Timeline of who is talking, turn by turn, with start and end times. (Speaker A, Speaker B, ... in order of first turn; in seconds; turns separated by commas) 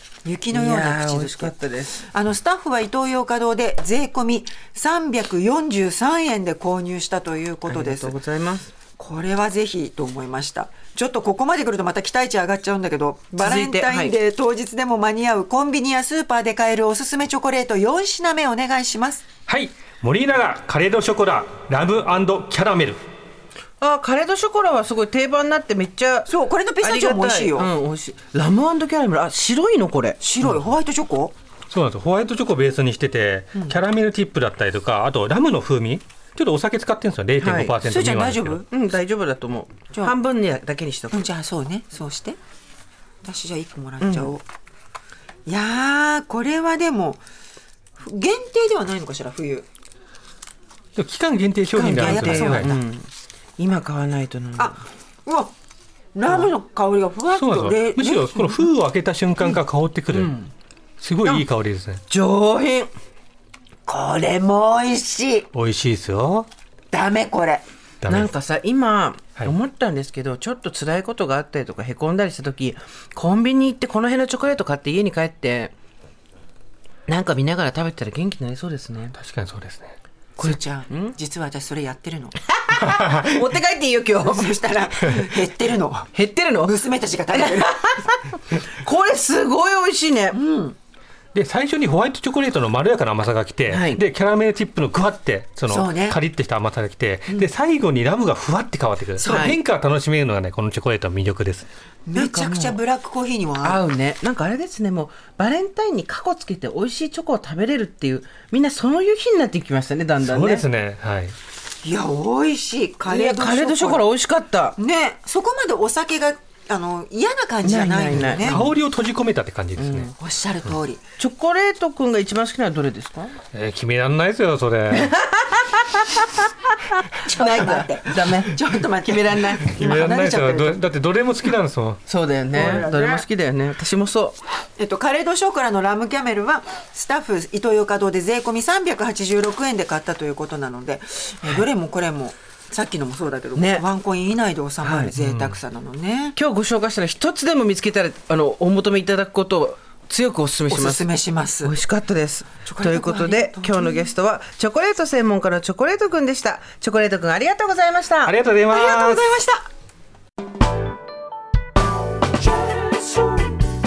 Speaker A: 0.2-8.2, Speaker B: 0.5-2.0, Speaker B: 7.7-8.7, Speaker A: 9.0-19.2, Speaker B: 13.3-14.1, Speaker C: 19.5-23.0, Speaker B: 23.8-26.3, Speaker A: 26.3-27.7, Speaker B: 26.8-30.2, Speaker A: 30.2-31.3, Speaker C: 30.4-30.7, Speaker C: 31.7-38.6, Speaker B: 37.4-37.8, Speaker A: 37.8-38.6, Speaker B: 38.7-41.3, Speaker A: 41.1-42.4, Speaker A: 43.2-44.4, Speaker B: 44.0-44.3, Speaker A: 45.5-47.2, Speaker A: 48.0-49.6, Speaker C: 51.0-52.8, Speaker A: 51.7-52.8, Speaker B: 51.7-54.8, Speaker A: 54.5-55.5, Speaker A: 56.1-58.6, Speaker C: 57.3-60.3, Speaker B: 60.1-60.5, Speaker C: 61.0-62.0, Speaker B: 62.1-62.9, Speaker A: 63.9-65.5, Speaker C: 65.5-66.5, Speaker A: 66.9-67.6, Speaker C: 68.0-68.3, Speaker B: 68.0-75.7, Speaker B: 77.1-79.2, Speaker C: 79.1-80.0, Speaker A: 80.4-82.4, Speaker B: 80.4-81.1, Speaker B: 82.5-84.6, Speaker C: 82.9-83.2, Speaker A: 84.2-86.1, Speaker B: 86.1-86.7, Speaker A: 86.6-87.8, Speaker B: 87.3-90.4, Speaker A: 90.3-90.8, Speaker C: 91.3-101.7, Speaker B: 93.7-94.0, Speaker A: 95.7-96.2, Speaker A: 99.2-99.5, Speaker B: 99.3-99.6, Speaker A: 102.1-103.8, Speaker B: 102.1-102.8, Speaker B: 103.6-110.7, Speaker C: 110.2-111.3, Speaker A: 111.8-114.0, Speaker B: 113.1-114.8, Speaker A: 114.8-118.6, Speaker B: 117.6-118.7, Speaker C: 118.4-120.1, Speaker B: 119.8-120.1, Speaker A: 120.2-121.0, Speaker B: 121.2-123.4, Speaker C: 123.5-125.2, Speaker B: 124.9-129.7, Speaker A: 127.1-130.8, Speaker C: 129.6-132.0, Speaker B: 132.1-134.4, Speaker A: 132.5-133.2, Speaker C: 132.6-132.9, Speaker A: 134.8-146.3, Speaker B: 143.5-143.8, Speaker B: 144.8-145.1, Speaker C: 145.1-145.6, Speaker B: 146.3-151.1, Speaker A: 150.7-151.7, Speaker B: 151.6-158.3, Speaker A: 152.6-154.1, Speaker C: 158.2-159.3, Speaker A: 158.7-159.7, Speaker B: 163.0-163.3